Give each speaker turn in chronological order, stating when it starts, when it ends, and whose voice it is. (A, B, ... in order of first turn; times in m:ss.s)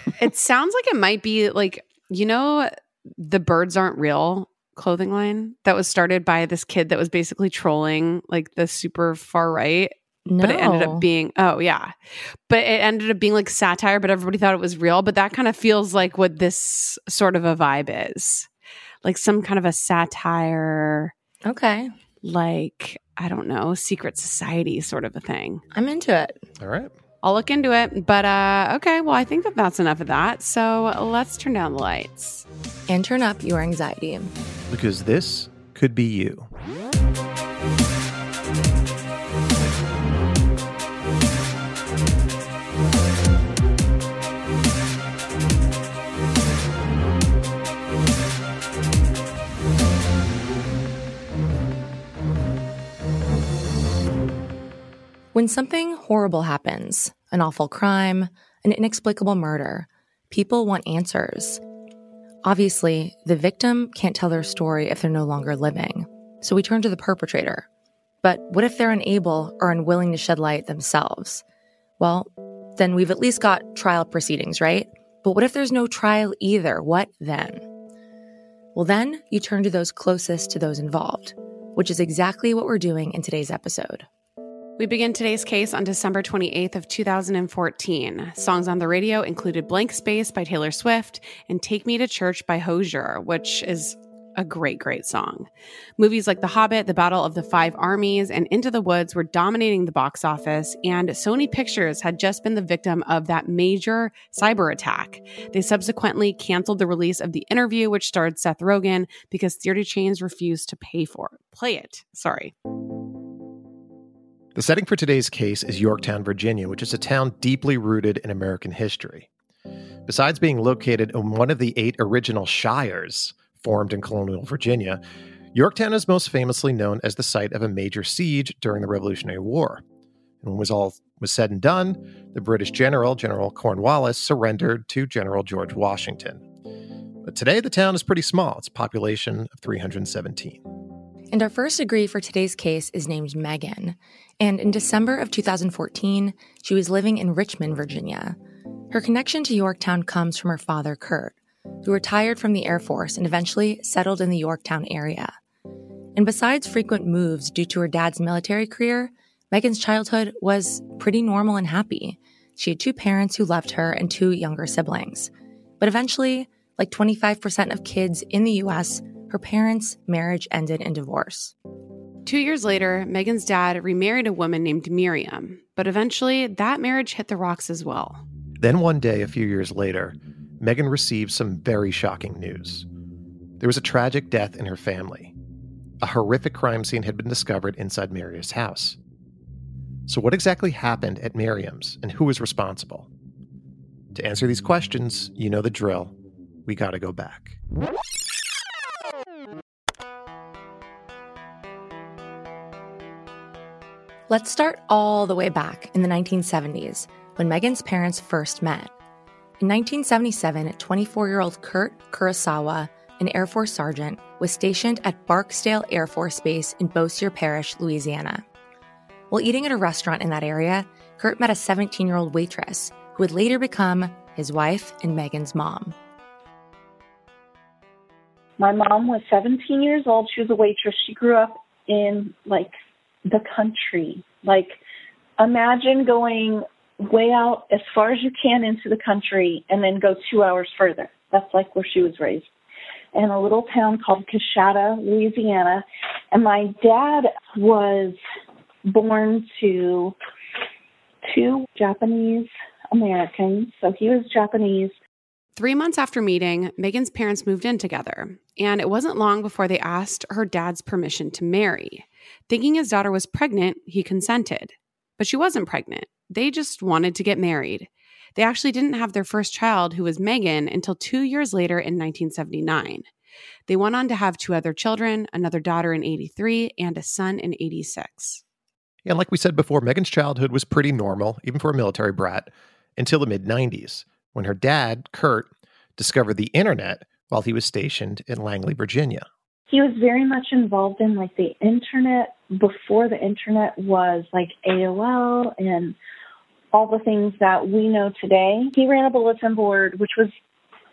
0:00.1-0:18.5 A
0:10.3-0:11.0 B
0:19.0-0:21.1 A
0:21.4-0:21.9 B
0:22.2-0:25.6 A
0:25.7-0:26.4 B
0:26.6-0:26.9 C
0:27.2-0:32.4 A
0:32.9-0:34.3 B
0:34.7-0:36.5 C
0:55.3-1:01.6 B
1:02.4-1:07.6 B
1:08.2-1:11.4 B
1:12.0-1:17.6 B
1:18.7-1:24.1 B
1:24.8-1:52.5 A
1:54.5-1:59.3 C
2:00.0-2:05.0 C
2:05.5-2:09.8 C
2:10.4-2:16.4 C
2:17.2-2:20.6 C
2:21.3-2:28.4 B
2:28.9-2:35.3 B
2:36.2-2:51.5 B
2:52.2-2:58.2 A
2:58.6-3:02.8 C
3:03.6-3:05.3 C
3:06.0-3:09.0 C
3:10.1-3:13.1 C
3:14.1-3:16.1 C
3:16.6-3:17.6 C
3:24.3-3:28.9 B
3:29.6-3:38.4 B
3:39.3-3:46.0 B
3:48.6-3:52.7 D
3:53.3-3:54.8 D
3:55.4-4:02.5 D
4:03.1-4:08.2 D
4:08.8-4:10.1 D
4:11.3-4:14.9 D
4:15.6-4:33.0 A
4:33.7-4:38.4 A
4:39.0-4:49.2 C
4:49.7-4:56.0 D
4:56.7-5:00.3 D